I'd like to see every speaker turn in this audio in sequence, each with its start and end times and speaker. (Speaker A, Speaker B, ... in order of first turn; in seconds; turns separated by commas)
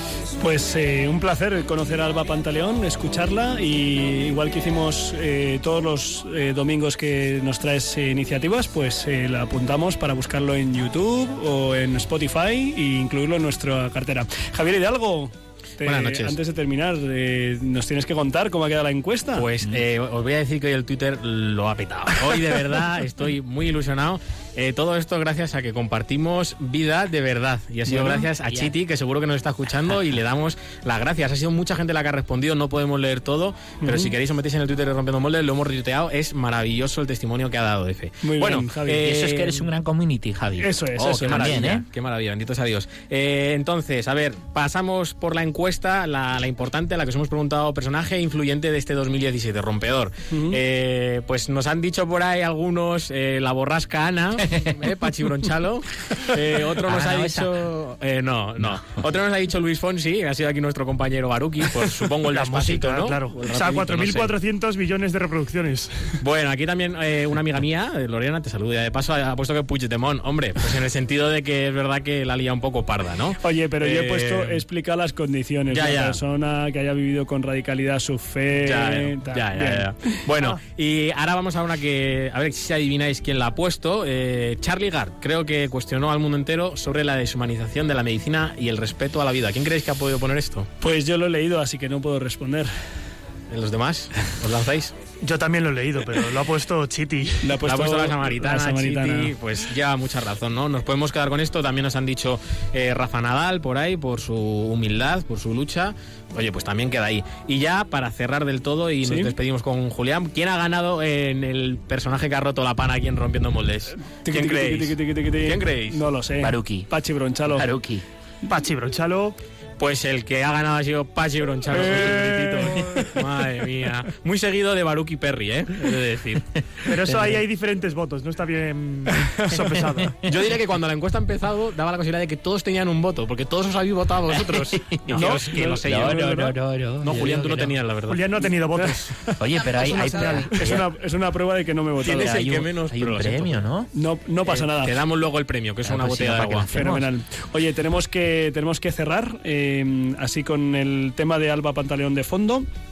Speaker A: 0.4-19.5, Speaker B: 15.8-16.4, Speaker B: 19.4-39.7, Speaker A: 27.9-28.3, Speaker C: 28.2-28.8, Speaker C: 29.9-30.2, Speaker A: 33.8-34.1, Speaker A: 38.2-39.0, Speaker C: 39.0-41.9, Speaker A: 40.6-41.7, Speaker B: 41.0-64.3, Speaker A: 50.3-50.6, Speaker C: 56.8-57.7, Speaker D: 62.3-66.1, Speaker B: 66.2-74.6, Speaker A: 73.4-80.5, Speaker B: 75.7-76.2, Speaker B: 78.6-90.7, Speaker A: 90.8-92.7, Speaker B: 93.5-94.9, Speaker D: 95.2-97.4, Speaker A: 97.4-99.3, Speaker B: 97.6-116.0, Speaker A: 109.0-109.3, Speaker A: 114.1-117.7, Speaker C: 116.4-116.9, Speaker C: 117.4-118.1, Speaker D: 118.5-119.4, Speaker B: 119.8-126.5, Speaker A: 121.7-123.1, Speaker D: 126.9-130.2, Speaker B: 130.2-136.3, Speaker C: 134.3-137.5, Speaker A: 135.2-136.6, Speaker B: 137.0-138.4, Speaker A: 137.1-137.7, Speaker D: 138.1-139.1, Speaker C: 139.4-140.9, Speaker D: 139.9-140.4, Speaker A: 140.2-142.4, Speaker B: 142.0-143.7, Speaker C: 142.0-143.9, Speaker A: 144.0-145.0, Speaker B: 144.5-146.7, Speaker C: 145.8-147.1, Speaker A: 146.7-152.7